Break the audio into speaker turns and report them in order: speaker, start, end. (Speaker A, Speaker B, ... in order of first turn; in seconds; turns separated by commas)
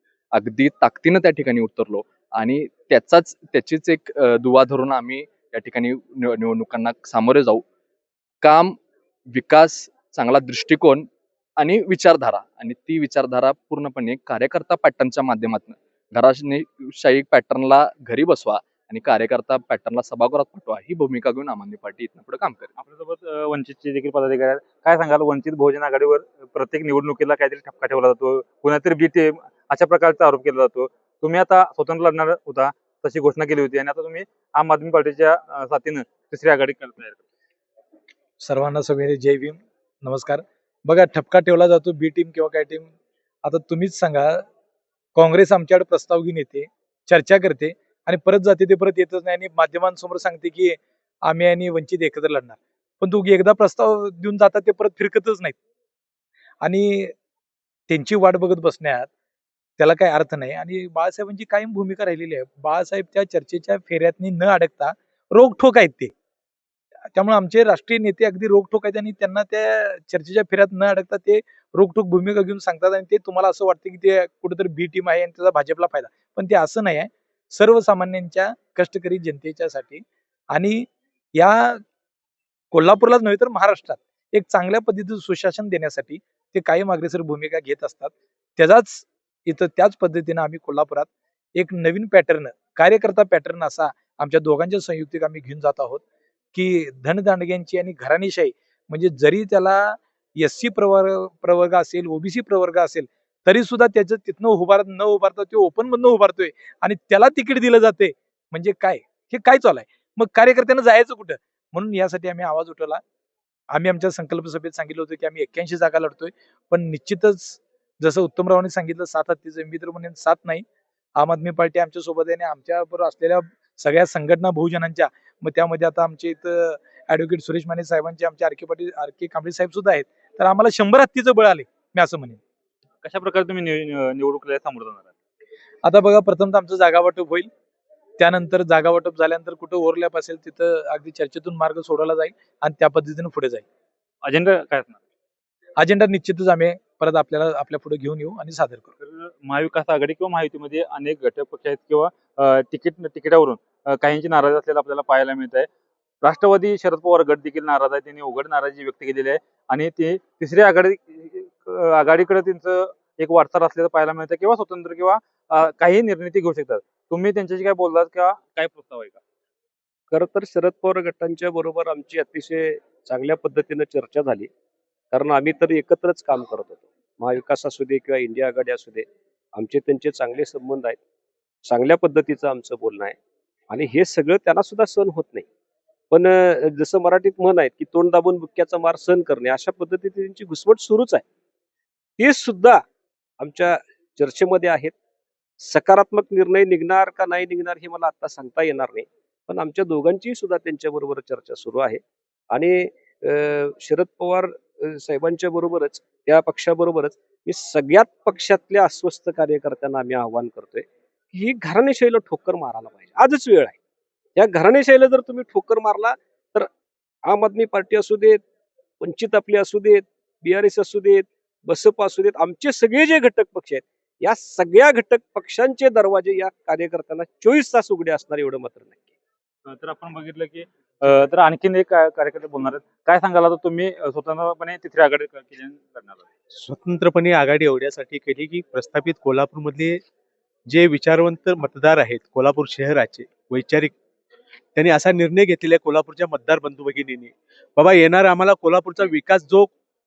Speaker A: 0.3-7.6, Speaker A: 8.4-8.8, Speaker A: 9.3-22.7, Speaker B: 22.8-37.2, Speaker C: 38.4-42.9, Speaker C: 43.4-44.4, Speaker C: 45.1-55.6, Speaker C: 56.6-57.1, Speaker C: 57.9-59.1, Speaker C: 59.8-66.1, Speaker C: 67.1-81.8, Speaker C: 82.7-96.0, Speaker C: 96.5-113.0, Speaker C: 113.7-120.6, Speaker C: 121.2-132.4, Speaker B: 133.0-135.1, Speaker C: 135.8-137.5, Speaker C: 138.2-143.7, Speaker B: 144.2-145.0, Speaker C: 145.8-148.9, Speaker B: 149.0-155.7, Speaker B: 156.2-169.2, Speaker D: 170.1-174.5, Speaker D: 175.1-179.1, Speaker D: 179.6-181.0, Speaker D: 181.7-183.2, Speaker D: 183.7-185.5, Speaker D: 186.1-191.2, Speaker D: 192.2-192.8, Speaker D: 193.4-194.9, Speaker D: 195.6-202.0, Speaker D: 202.5-213.8, Speaker D: 214.3-216.7, Speaker D: 217.3-218.4, Speaker D: 219.0-229.0, Speaker B: 229.7-236.2, Speaker E: 236.5-240.0, Speaker E: 240.7-243.9, Speaker E: 244.7-249.7